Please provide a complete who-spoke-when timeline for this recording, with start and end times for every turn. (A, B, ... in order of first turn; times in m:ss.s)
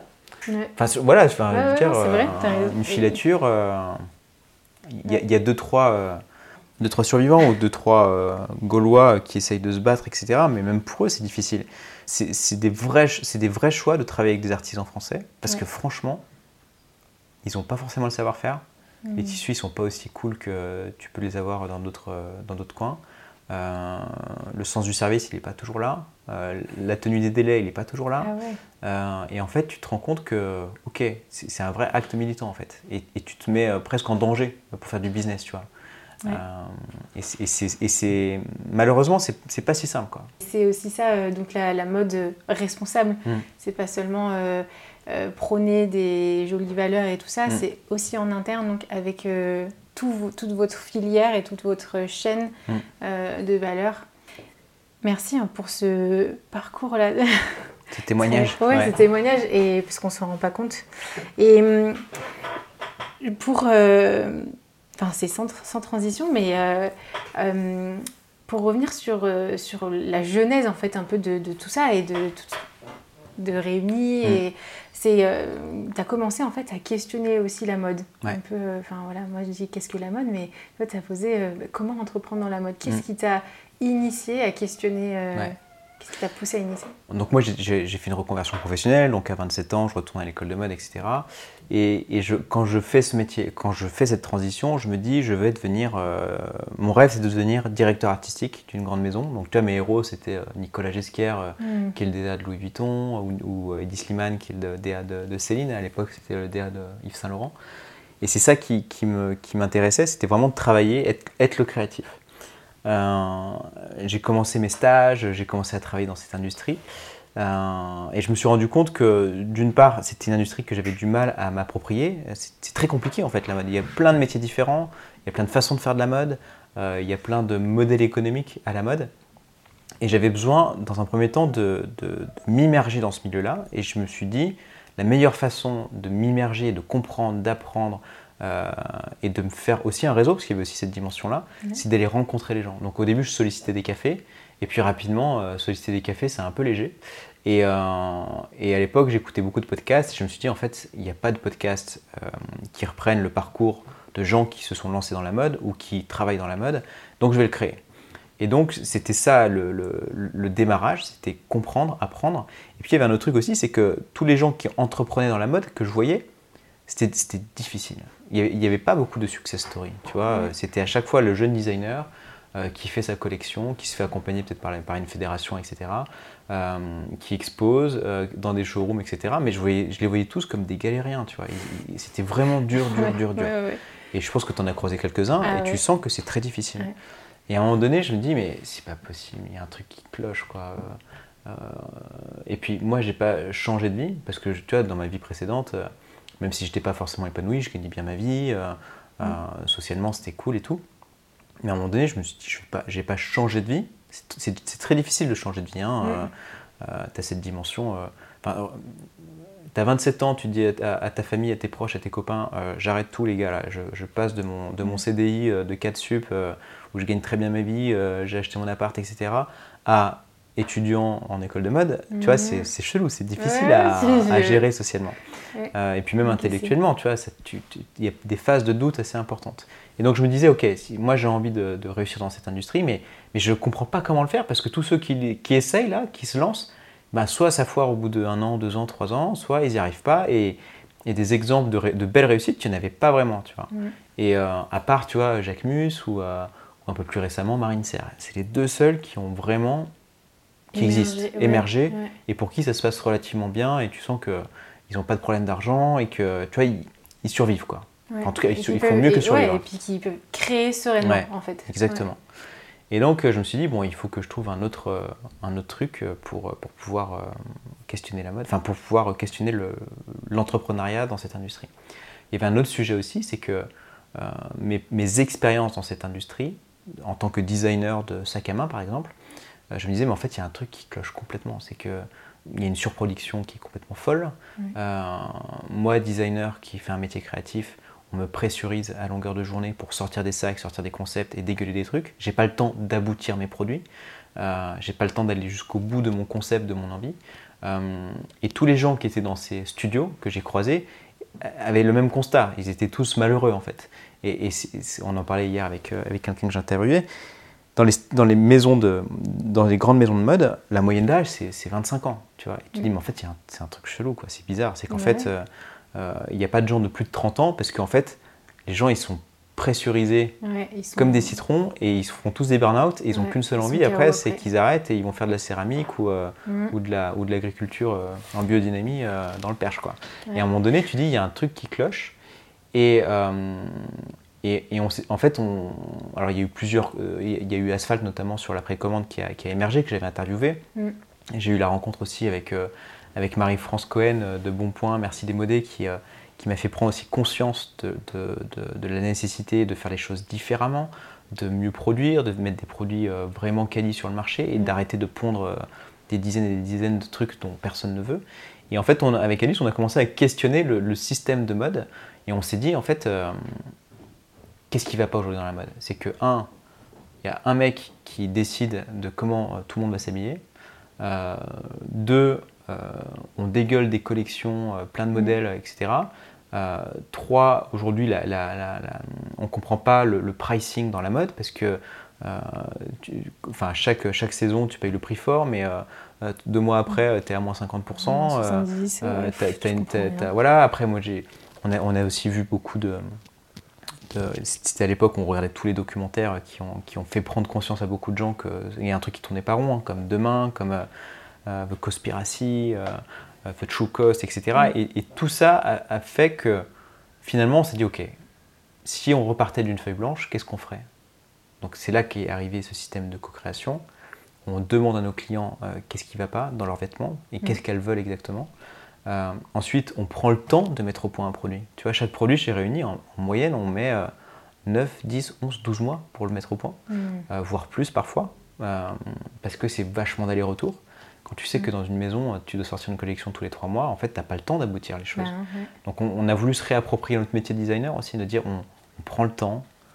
0:00.4-0:00.7 A
0:00.8-0:04.1 B
0:01.5-0:03.2 A
0:04.9-0:06.2 B
0:06.8-0:16.2 B
0:17.4-0:35.7 B
0:19.0-0:19.4 A
0:28.2-0:28.6 A
0:36.2-0:40.3 B
0:40.4-0:54.1 A
0:55.0-1:00.8 A
0:57.9-0:58.9 B
1:01.4-1:02.0 A
1:03.2-1:12.6 A
1:13.4-1:26.9 A
1:27.1-1:47.5 B
1:41.6-1:42.0 A
1:48.2-1:52.2 B
1:52.8-1:56.8 B
1:57.4-2:09.1 B
2:10.0-2:37.8 B
2:38.4-2:46.3 B
2:46.9-3:03.5 B
3:02.7-3:03.8 A
3:04.1-3:06.9 B
3:05.4-3:05.8 A
3:07.5-3:20.8 B
3:21.6-3:29.1 B
3:26.0-3:26.3 A
3:29.7-3:45.2 B
3:42.1-3:42.7 A
3:43.4-3:44.6 A
3:45.7-4:09.9 B
3:46.2-3:46.7 A
4:10.7-4:12.1 A
4:10.7-4:19.6 B
4:18.1-4:22.0 A
4:21.0-4:22.2 B
4:22.9-4:27.3 B
4:27.9-4:31.7 B
4:32.3-4:39.1 B
4:39.7-4:53.8 B
4:54.4-5:00.9 B
5:01.4-5:07.0 B
5:07.8-5:20.3 B
5:14.9-5:15.3 A
5:20.4-5:21.3 A
5:21.0-5:32.1 B
5:23.1-5:24.4 A
5:26.4-5:26.7 A
5:32.7-5:40.6 B
5:41.3-6:03.7 B
6:04.7-6:06.5 B
6:07.2-6:10.4 B
6:11.0-6:33.2 B
6:28.0-6:30.3 A
6:34.1-6:40.9 B
6:41.4-6:46.7 B
6:47.2-6:48.1 B
6:48.8-6:50.8 B
6:51.6-6:53.8 B
6:54.4-6:58.5 B
6:59.1-7:04.1 B
7:04.6-7:06.8 B
7:06.9-7:07.2 A
7:07.3-7:19.6 B
7:15.2-7:15.7 A